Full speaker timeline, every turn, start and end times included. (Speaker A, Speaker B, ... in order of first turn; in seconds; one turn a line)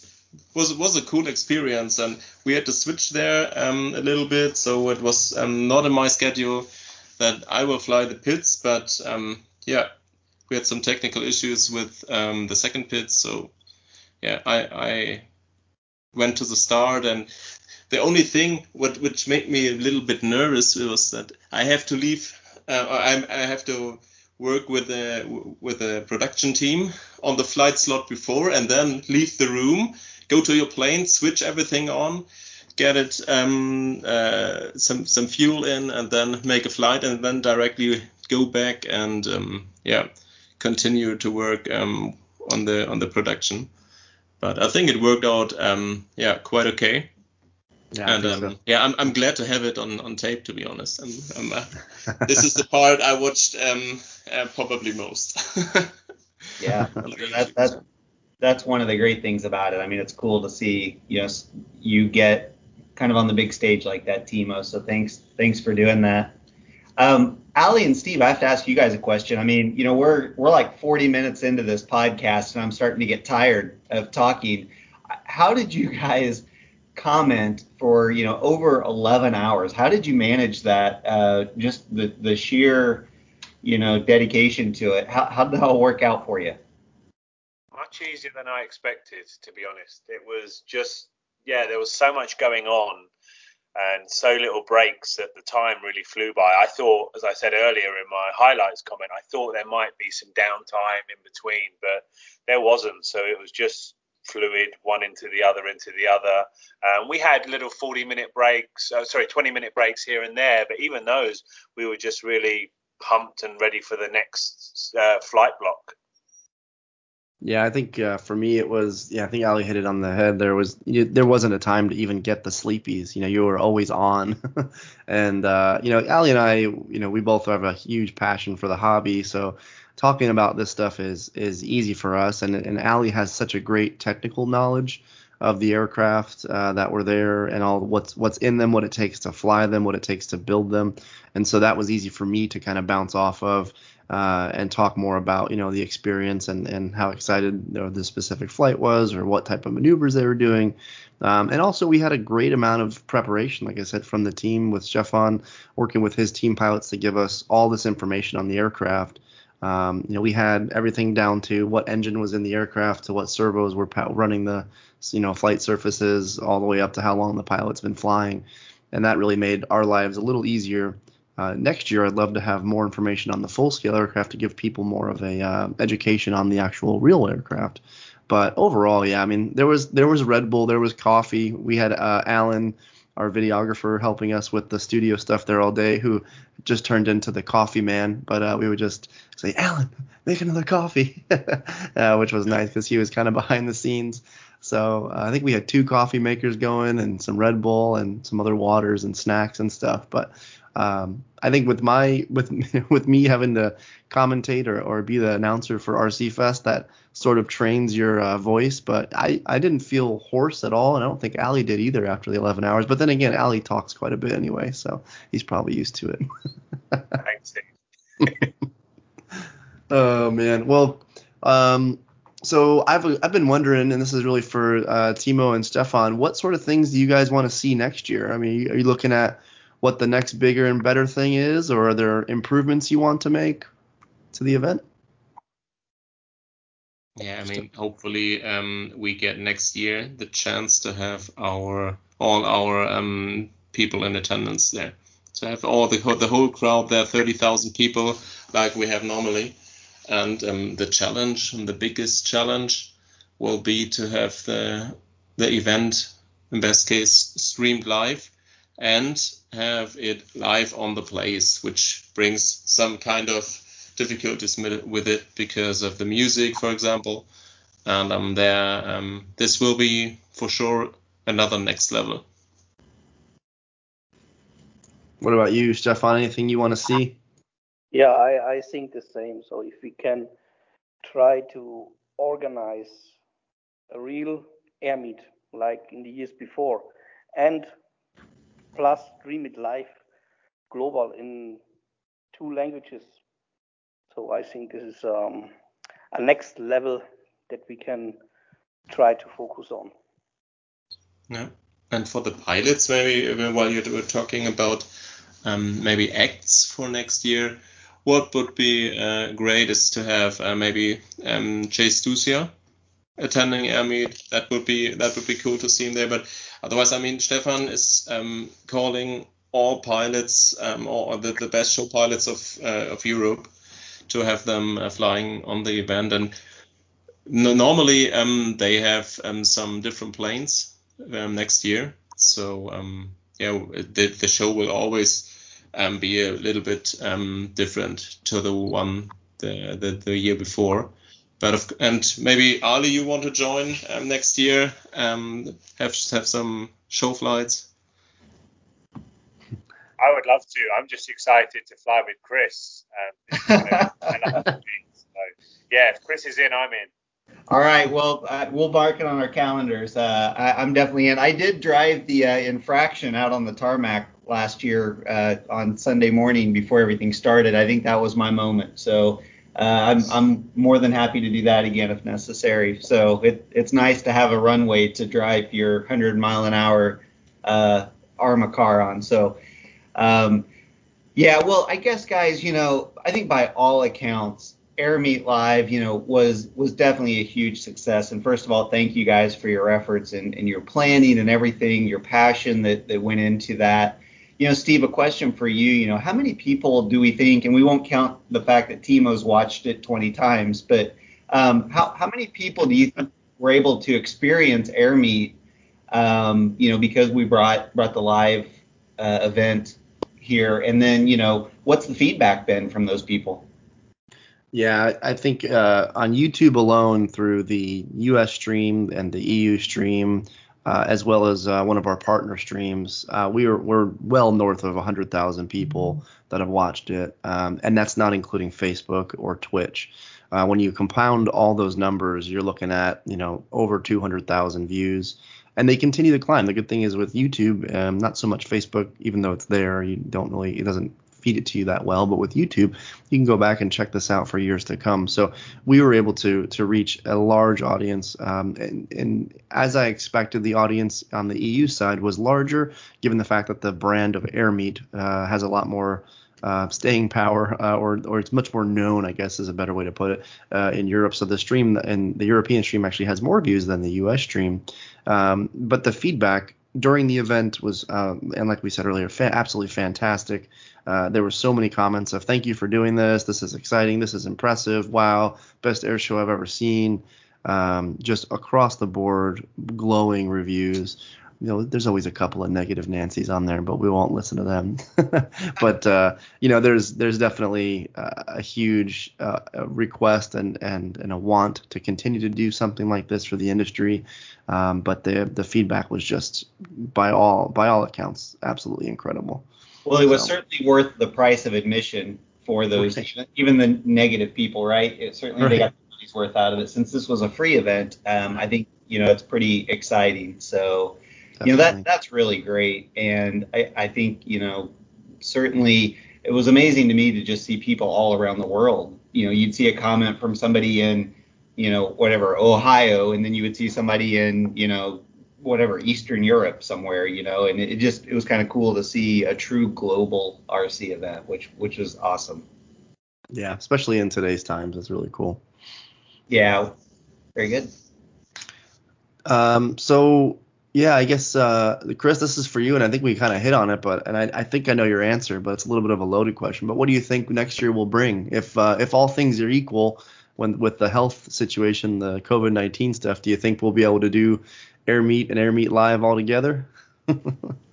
Speaker A: 0.5-9.9
Speaker A: 10.5-13.5
Speaker A: 14.2-15.2
Speaker A: 16.1-17.3
Speaker A: 17.9-40.1
Speaker A: 40.6-43.7
Speaker A: 44.4-47.1
Speaker B: 47.9-48.5
Speaker A: 48.0-55.9
Speaker C: 56.6-57.8
Speaker A: 56.7-57.7
Speaker C: 58.4-66.3
Speaker C: 67.0-74.7
Speaker C: 75.3-76.4
Speaker C: 76.9-83.1
Speaker C: 83.6-86.6
Speaker D: 87.7-93.1
Speaker D: 93.8-116.0
Speaker B: 117.4-216.3
Speaker D: 217.2-217.7
Speaker B: 219.9-233.7
Speaker B: 234.3-234.8
Speaker A: 237.2-249.6
Speaker A: 250.1-267.3
Speaker A: 267.8-272.2
Speaker B: 275.2-277.2
Speaker E: 277.9-280.3
Speaker E: 281.0-283.1
Speaker E: 283.9-287.7
Speaker E: 288.7-290.0
Speaker E: 290.7-291.6
Speaker E: 292.3-293.2
Speaker E: 294.1-295.5
Speaker E: 296.1-298.2
Speaker E: 298.9-299.9
Speaker A: 301.3-304.9
Speaker A: 305.4-312.5
Speaker A: 313.2-323.5
Speaker A: 324.1-326.3
Speaker A: 327.2-347.7
Speaker D: 350.0-356.9
Speaker C: 357.5-379.4
Speaker C: 379.9-380.5
Speaker C: 381.1-405.3
Speaker C: 405.9-413.5
Speaker B: 414.5-499.4
Speaker C: 499.9-532.4
Speaker B: 500.0-500.3
Speaker B: 511.4-511.8
Speaker B: 533.3-535.4
Speaker C: 536.3-536.7
Speaker C: 537.4-537.7
Speaker B: 539.3-557.5